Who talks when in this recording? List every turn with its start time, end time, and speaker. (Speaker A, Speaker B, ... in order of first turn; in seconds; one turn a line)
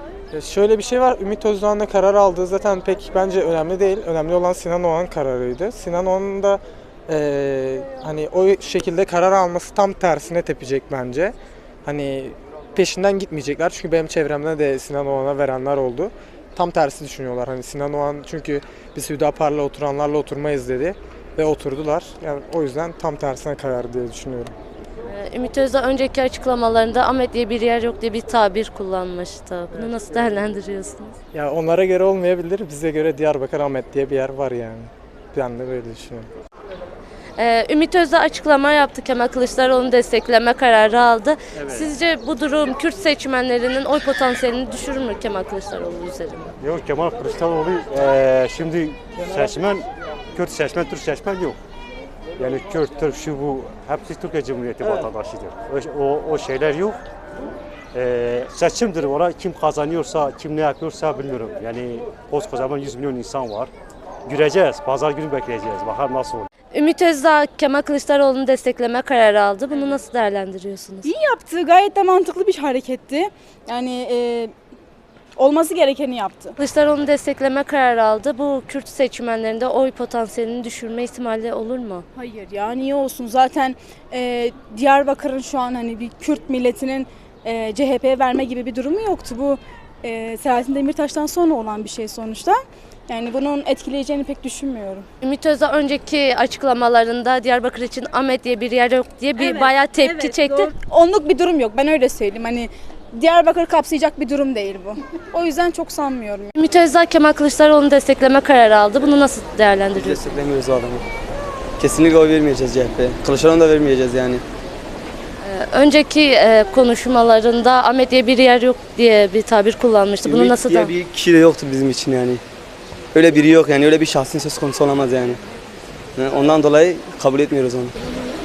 Speaker A: 0.3-11.3
Speaker A: 11.8-24.5
Speaker B: 25.0-31.1
Speaker A: 31.3-36.3
Speaker B: 37.4-46.5
Speaker C: 46.6-51.6
Speaker C: 52.4-57.0
Speaker C: 57.9-63.7
Speaker C: 64.2-66.5
Speaker B: 66.7-71.1
Speaker D: 71.0-74.5
Speaker D: 75.4-76.5
Speaker B: 76.6-82.0
Speaker D: 82.2-95.0
Speaker B: 95.2-100.7
Speaker D: 99.4-106.5
Speaker B: 106.5-110.2
Speaker E: 109.9-111.0
Speaker E: 111.8-114.4
Speaker B: 115.4-120.9
Speaker E: 120.2-122.4
Speaker E: 123.1-125.4
Speaker E: 126.1-128.0